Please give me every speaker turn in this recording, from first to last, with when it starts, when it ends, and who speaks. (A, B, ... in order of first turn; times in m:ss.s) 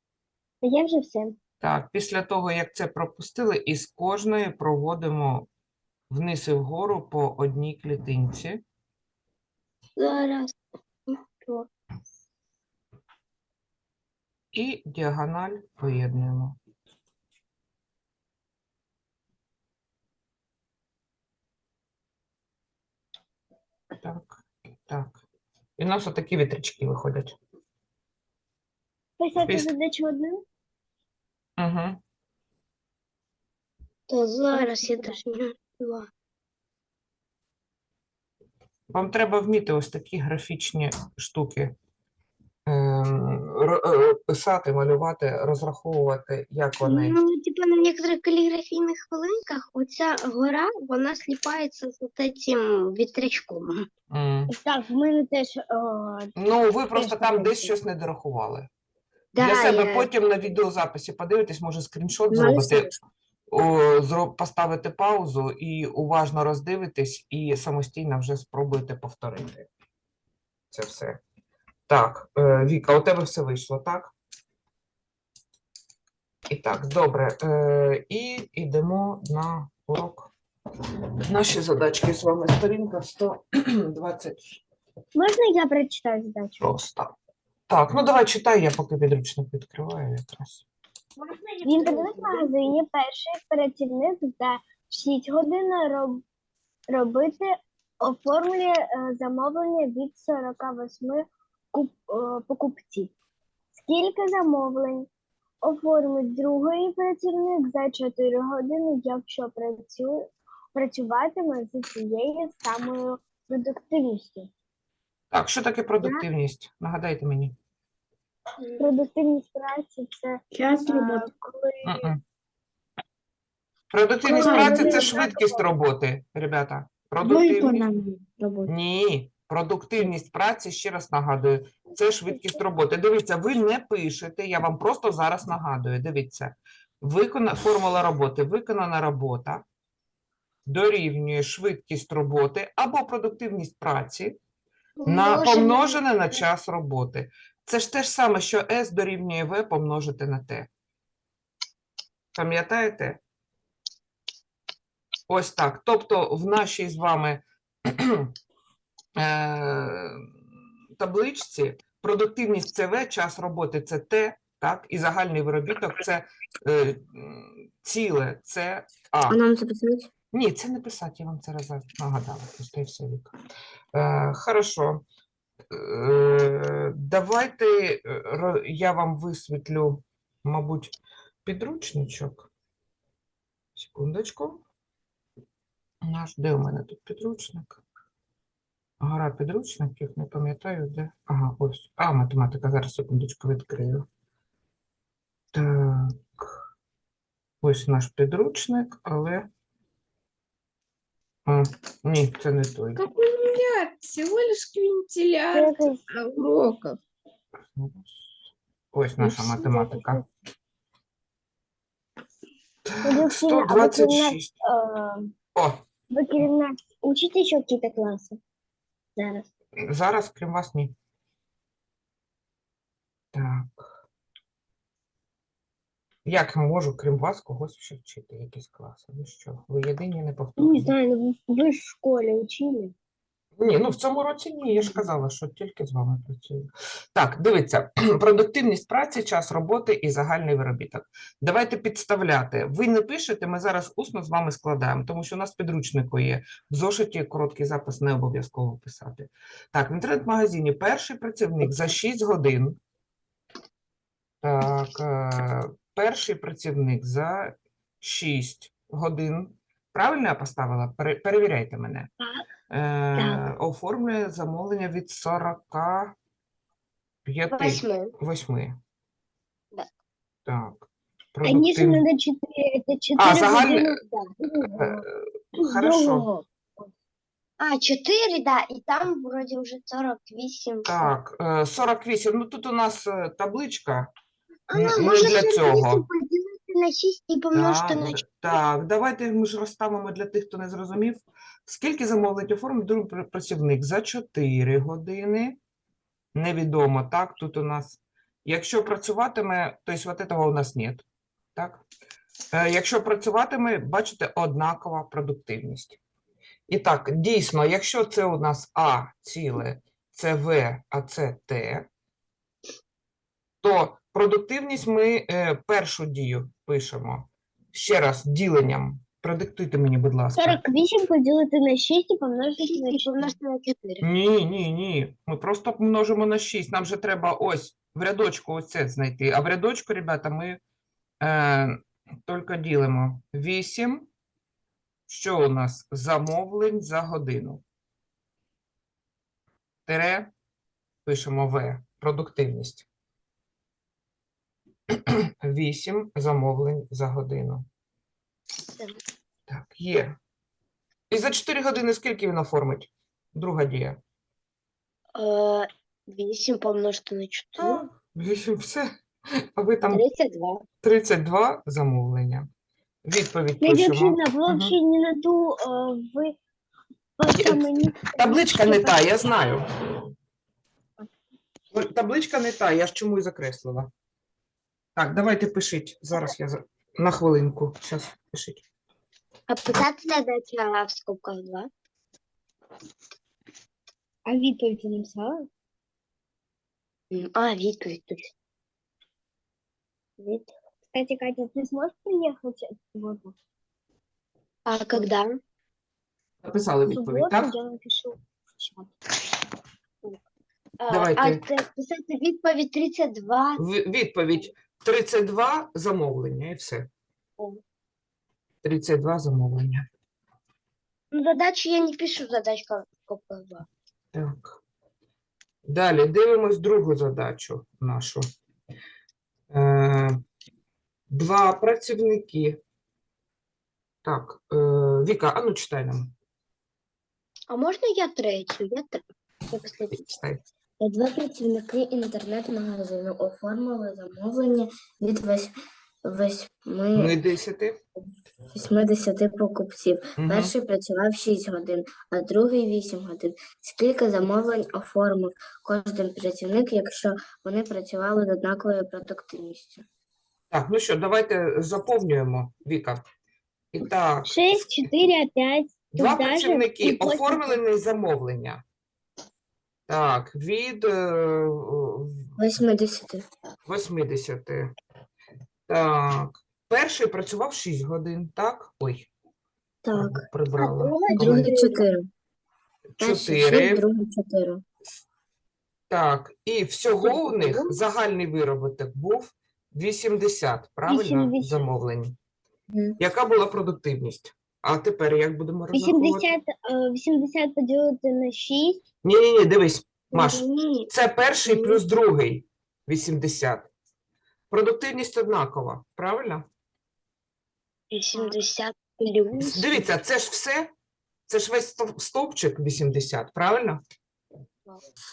0:00.6-0:01.4 A
0:01.6-0:05.5 B
0:06.1-0:08.6 B
0:10.0-0:10.5 C
0:11.1-0:11.7 C
0:14.5-0:16.6 B
0:24.0-0:25.2 B
0:25.8-0:27.4 B
0:29.2-0:30.4 A
0:31.6-0:32.0 B
0:34.1-0:36.1 C
0:34.5-0:35.2 A
0:38.9-0:41.7 B
0:42.7-0:47.2 B
0:46.8-0:53.8 C
0:54.1-0:54.5 B
0:54.5-0:56.3 A
0:56.4-0:58.7 B
0:56.9-0:57.7 A
0:59.3-1:00.1 C
0:59.4-1:02.9 B
1:02.3-1:02.9 D
1:03.5-1:09.7 B
1:10.7-1:11.2 B
1:11.9-1:14.1 B
1:16.5-1:20.3 B
1:21.2-1:24.6 B
1:25.1-1:26.6 A
1:26.6-1:27.1 B
1:27.7-1:30.6 B
1:31.2-1:32.8 C
1:31.6-1:36.2 A
1:36.9-1:37.5 A
1:38.0-1:43.1 A
1:43.7-1:45.1 A
1:45.6-1:50.2 A
1:50.7-1:54.5 A
1:55.3-1:57.5 B
1:58.6-1:58.9 C
1:58.8-2:02.0 A
2:00.6-2:01.2 E
2:01.8-2:02.2 B
2:03.9-2:07.9 B
2:04.3-2:05.6 A
2:04.5-2:04.9 E
2:08.7-2:19.6 B
2:20.6-2:24.4 B
2:25.0-2:25.8 C
2:25.0-2:30.7 B
2:32.3-2:33.2 B
2:35.3-2:38.3 B
2:39.2-2:40.2 B
2:41.0-2:49.4 B
2:49.3-2:50.1 D
2:50.3-2:53.3 B
2:53.9-2:55.0 B
2:55.7-3:02.5 B
3:03.8-3:04.6 B
3:06.0-3:07.8 B
3:09.0-3:14.0 B
3:15.5-3:16.5 B
3:17.6-3:19.5 B
3:21.4-3:23.0 B
3:23.0-3:27.0 E
3:25.5-3:26.0 A
3:27.7-3:28.2 B
3:28.9-3:30.2 B
3:29.2-3:30.2 A
3:32.8-3:34.5 B
3:33.0-3:35.3 A
3:35.5-3:35.8 B
3:36.1-3:38.4 A
3:39.2-3:39.4 A
3:39.8-3:40.9 B
3:43.3-3:43.9 B
3:46.2-3:50.9 B
3:50.6-3:52.9 A
3:53.6-4:12.8 B
4:14.4-4:22.1 B
4:22.7-4:26.1 B
4:23.2-4:23.4 C
4:27.2-4:28.8 B
4:27.5-4:28.1 C
4:30.4-4:32.0 B
4:31.4-4:33.9 A
4:33.2-4:36.3 B
4:33.8-4:34.4 C
4:34.5-4:35.0 A
4:35.6-4:36.9 A
4:37.6-4:41.1 C
4:40.8-4:44.1 B
4:44.7-4:48.2 C
4:44.7-4:46.0 B
4:47.5-4:55.6 B
4:56.3-5:01.8 B
5:02.5-5:06.0 B
5:06.7-5:11.9 B
5:13.6-5:20.6 B
5:20.4-5:23.3 A
5:22.6-5:24.0 C
5:24.0-5:30.6 B
5:31.2-5:34.1 B
5:35.1-5:37.6 B
5:39.9-5:40.3 B
5:41.0-5:42.9 B
5:45.1-5:47.6 B
5:48.7-5:48.9 C
5:49.5-5:50.2 B
5:51.1-5:54.0 B
5:55.1-5:57.9 C
5:58.1-5:58.9 B
5:59.6-6:00.0 B
5:59.9-6:00.6 C
6:00.8-6:02.5 B
6:03.0-6:04.7 B
6:03.6-6:06.4 A
6:07.2-6:09.1 A
6:07.4-6:10.1 B
6:11.7-6:13.9 B
6:15.0-6:18.6 B
6:19.5-6:21.7 C
6:24.2-6:25.5 A
6:27.1-6:28.3 C
6:30.9-6:33.3 A
6:34.6-6:35.4 C
6:36.4-6:37.5 B
6:36.9-6:38.9 A
6:40.8-6:43.6 C
6:40.9-6:41.4 B
6:43.6-6:46.9 B
6:48.6-6:49.8 B
6:51.1-6:53.6 C
6:54.1-6:54.6 B
6:55.6-6:58.3 B
6:59.5-7:00.2 B
7:01.1-7:02.6 B
7:04.0-7:06.1 B
7:07.5-7:10.1 C
7:09.9-7:10.4 B
7:10.8-7:15.5 D
7:16.0-7:17.2 D
7:16.9-7:17.8 B
7:18.5-7:29.8 D
7:20.2-7:20.5 B
7:30.5-7:33.0 B
7:33.7-7:34.7 B
7:34.2-7:37.6 A
7:35.9-7:38.6 B
7:39.9-7:42.3 B
7:42.4-7:43.2 D
7:43.6-7:44.7 B
7:45.7-7:49.1 B
7:49.8-7:50.2 D
7:49.9-7:51.5 B
7:50.6-7:51.8 C
7:51.1-7:52.0 D
7:52.9-7:53.8 B
7:53.0-7:54.6 D
7:55.9-8:02.2 B
7:57.0-7:57.8 C
8:00.9-8:01.6 A
8:03.0-8:06.2 B
8:05.7-8:08.8 A
8:09.0-8:13.7 B
8:10.1-8:10.9 C
8:11.4-8:11.8 C
8:14.5-8:16.4 B
8:17.9-8:19.7 C
8:19.4-8:20.7 B
8:21.3-8:23.8 B